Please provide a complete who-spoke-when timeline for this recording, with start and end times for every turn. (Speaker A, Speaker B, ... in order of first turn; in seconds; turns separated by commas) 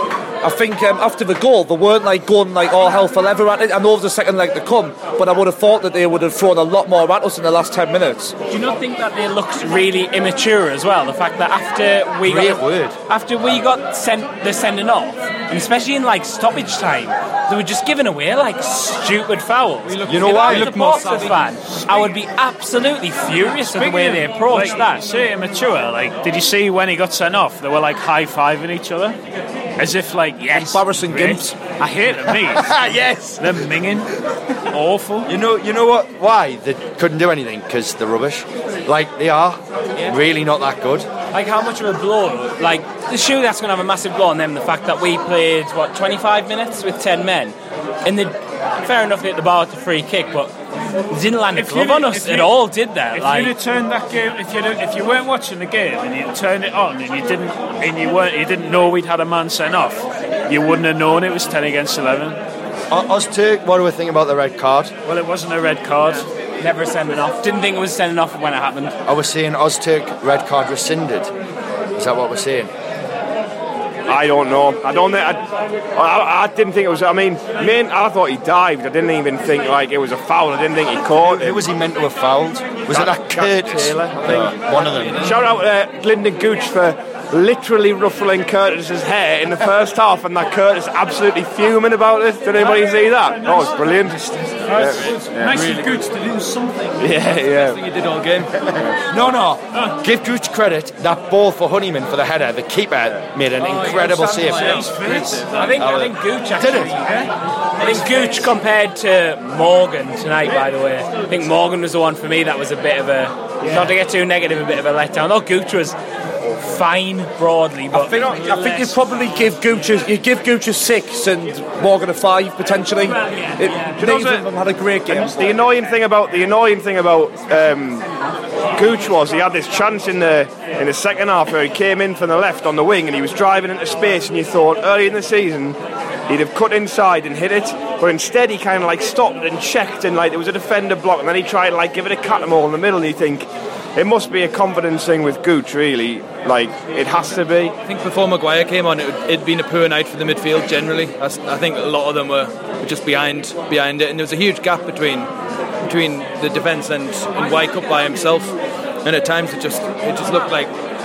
Speaker A: 0.4-8.3, Speaker B: 8.5-25.0, Speaker C: 12.2-13.0, Speaker D: 19.9-21.4, Speaker C: 20.1-20.7, Speaker E: 23.6-29.2, Speaker E: 29.8-35.3, Speaker A: 30.5-31.6, Speaker C: 35.3-41.1, Speaker B: 41.3-50.5, Speaker B: 51.1-53.5, Speaker E: 51.5-52.5, Speaker E: 53.1-62.4, Speaker C: 62.9-64.9, Speaker E: 65.0-66.3, Speaker B: 66.6-69.0, Speaker C: 69.1-71.3, Speaker C: 72.0-72.7, Speaker F: 74.1-75.4, Speaker F: 76.0-81.7, Speaker C: 81.3-85.3, Speaker F: 82.9-84.5, Speaker F: 85.2-95.5, Speaker E: 94.7-97.0, Speaker D: 95.4-96.0, Speaker F: 97.0-97.8, Speaker D: 97.3-98.7, Speaker F: 98.7-99.0, Speaker C: 99.1-104.9, Speaker D: 103.6-105.5, Speaker E: 104.7-105.7, Speaker B: 105.0-118.7, Speaker C: 105.7-107.0, Speaker A: 117.9-125.5, Speaker F: 123.9-124.5, Speaker F: 125.1-128.1, Speaker F: 128.8-135.8, Speaker F: 136.3-147.8, Speaker D: 147.8-155.3, Speaker D: 155.8-160.7